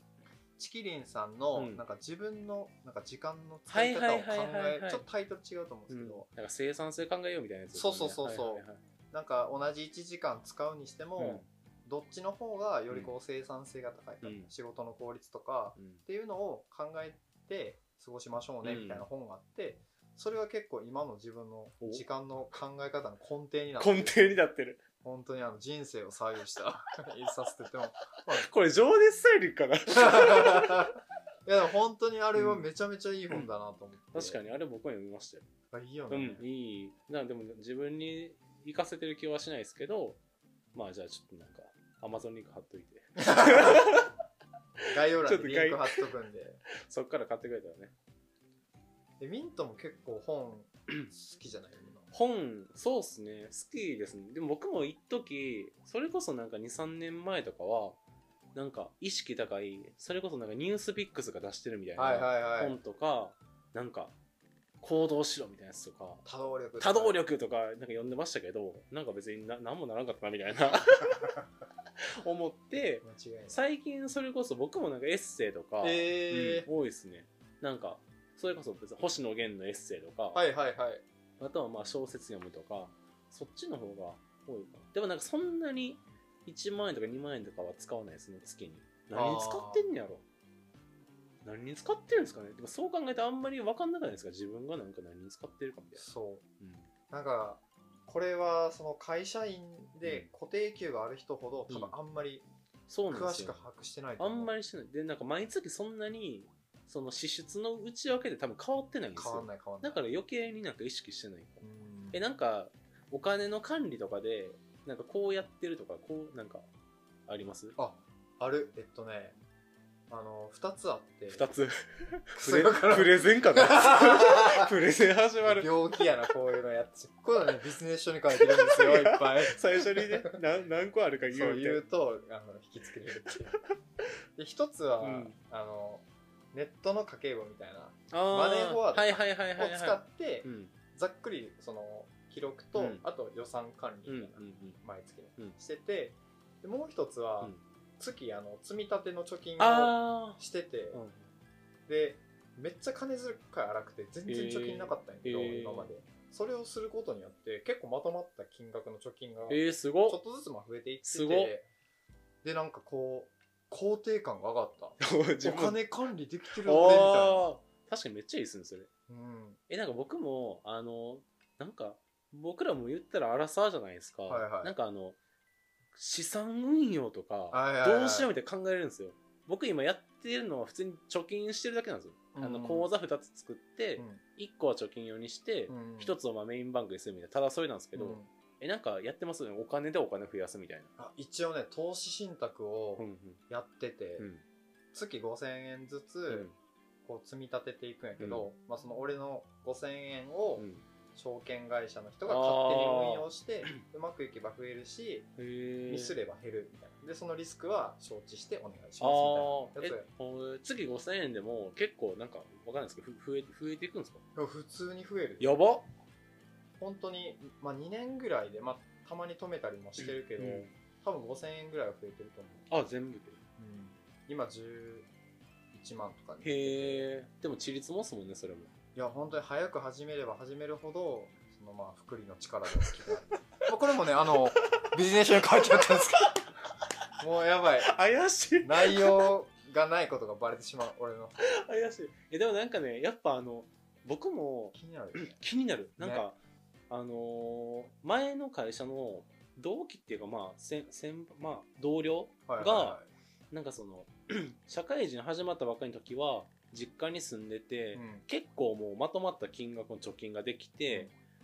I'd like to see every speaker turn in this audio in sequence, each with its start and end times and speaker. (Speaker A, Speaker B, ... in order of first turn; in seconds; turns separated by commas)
Speaker A: 0.6-6.3, Speaker B: 1.5-1.8, Speaker B: 3.7-5.0, Speaker B: 5.9-8.8, Speaker A: 7.7-24.3, Speaker B: 11.2-11.5, Speaker B: 14.2-14.5, Speaker B: 15.8-16.0, Speaker B: 18.6-19.1, Speaker B: 23.8-24.8, Speaker A: 25.0-28.5, Speaker B: 28.3-30.9, Speaker A: 29.9-34.4, Speaker B: 32.3-32.6, Speaker B: 34.1-35.4, Speaker A: 35.7-36.4, Speaker B: 36.1-40.2, Speaker B: 40.7-44.1, Speaker A: 43.2-43.8, Speaker A: 44.9-46.6, Speaker B: 45.2-46.0, Speaker B: 46.8-47.9, Speaker A: 49.2-52.1, Speaker B: 52.1-58.0, Speaker B: 58.5-64.1, Speaker A: 62.0-62.8, Speaker B: 64.8-66.2, Speaker A: 66.2-67.2, Speaker B: 66.8-71.4, Speaker B: 72.2-80.4, Speaker A: 73.0-73.6, Speaker A: 75.8-76.7, Speaker A: 80.3-81.0, Speaker B: 81.4-90.2, Speaker A: 89.1-89.9, Speaker B: 91.4-96.0, Speaker A: 95.9-96.4, Speaker B: 96.6-96.9, Speaker A: 97.1-102.5, Speaker B: 101.7-101.9, Speaker B: 102.9-103.6, Speaker A: 103.1-104.5, Speaker B: 104.2-116.7, Speaker A: 109.2-110.0, Speaker A: 111.6-112.2, Speaker B: 117.3-117.8, Speaker A: 117.8-119.4, Speaker A: 120.1-121.5, Speaker B: 121.3-125.7, Speaker A: 122.4-124.7, Speaker A: 125.4-130.3, Speaker B: 128.3-131.8, Speaker A: 131.3-133.6, Speaker A: 134.4-151.0, Speaker B: 135.0-135.4, Speaker B: 138.1-140.7, Speaker B: 142.7-143.0, Speaker B: 144.1-144.8, Speaker B: 149.6-150.4, Speaker B: 150.9-151.3, Speaker A: 151.9-161.7, Speaker B: 154.2-155.9, Speaker B: 159.5-160.2, Speaker B: 161.0-161.5, Speaker A: 162.4-167.5, Speaker B: 165.0-165.8, Speaker B: 166.6-168.9, Speaker A: 169.1-169.6, Speaker B: 169.7-175.2, Speaker A: 174.3-174.7, Speaker B: 175.9-190.9, Speaker A: 177.5-178.3, Speaker A: 182.3-182.9, Speaker A: 184.0-184.2, Speaker A: 185.7-186.2, Speaker A: 187.9-188.3, Speaker A: 191.0-194.3, Speaker B: 193.0-193.4, Speaker B: 194.2-194.4, Speaker A: 194.9-196.5, Speaker B: 196.3-196.5, Speaker A: 197.1-205.3, Speaker B: 198.2-198.5, Speaker B: 200.6-200.8, Speaker B: 202.2-203.7, Speaker B: 205.4-206.2, Speaker A: 205.9-210.1, Speaker B: 209.0-214.2, Speaker A: 214.3-215.6, Speaker B: 215.4-215.9, Speaker A: 216.8-222.7, Speaker B: 220.0-220.7, Speaker B: 222.7-223.4, Speaker A: 223.6-225.1, Speaker A: 225.7-227.1, Speaker B: 226.4-228.7, Speaker A: 228.9-236.5, Speaker B: 235.6-236.0, Speaker A: 237.2-237.9, Speaker B: 237.8-239.3, Speaker A: 238.6-241.4, Speaker B: 241.4-246.4, Speaker A: 244.7-245.4, Speaker A: 246.0-246.3, Speaker B: 246.9-253.0, Speaker A: 252.5-253.1, Speaker B: 253.5-261.1, Speaker A: 257.9-258.2